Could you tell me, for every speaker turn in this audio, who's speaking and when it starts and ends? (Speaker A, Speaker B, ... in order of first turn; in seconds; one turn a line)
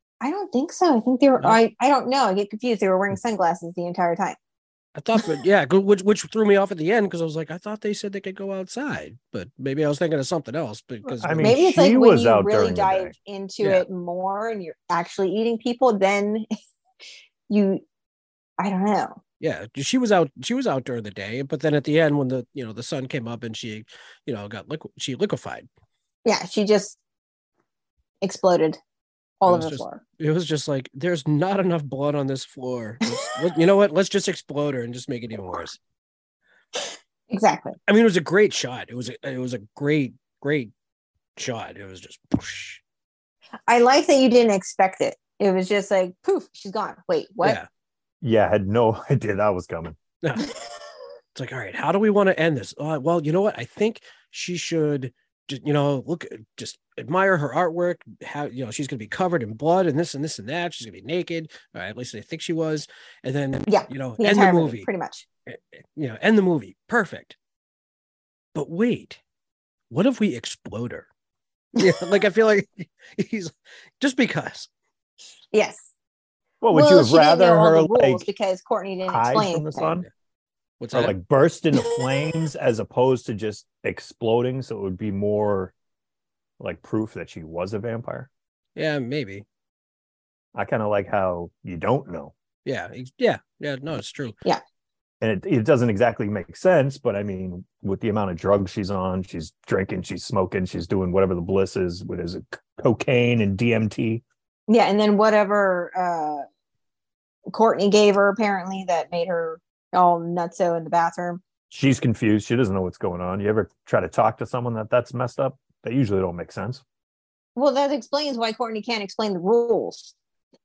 Speaker A: 0.2-4.3
Speaker B: 4.9-11.6
Speaker C: 11.1-13.1
Speaker A: 11.4-16.5
Speaker A: 17.5-17.8
Speaker A: 18.6-19.2
Speaker B: 19.4-25.7
Speaker A: 26.2-27.0
Speaker A: 28.2-28.8
Speaker A: 29.4-30.0
Speaker B: 29.4-35.8
Speaker A: 37.3-37.8
Speaker B: 37.9-40.7
Speaker B: 41.4-42.8
Speaker A: 43.7-47.6
Speaker B: 47.4-47.7
Speaker C: 48.2-50.0
Speaker B: 50.2-50.5
Speaker B: 51.3-64.9
Speaker A: 63.7-65.2
Speaker B: 65.5-67.3
Speaker B: 68.5-69.2
Speaker B: 69.9-71.1
Speaker B: 71.8-74.7
Speaker A: 75.5-75.9
Speaker C: 76.6-78.3
Speaker A: 76.7-79.9
Speaker C: 79.1-80.0
Speaker B: 80.8-81.1
Speaker C: 80.9-85.7
Speaker C: 86.6-88.3
Speaker B: 88.8-89.4
Speaker C: 90.5-92.3
Speaker B: 92.7-94.4
Speaker C: 95.2-104.2
Speaker A: 104.7-106.5
Speaker A: 107.5-111.4
Speaker C: 111.7-116.8
Speaker A: 117.5-120.1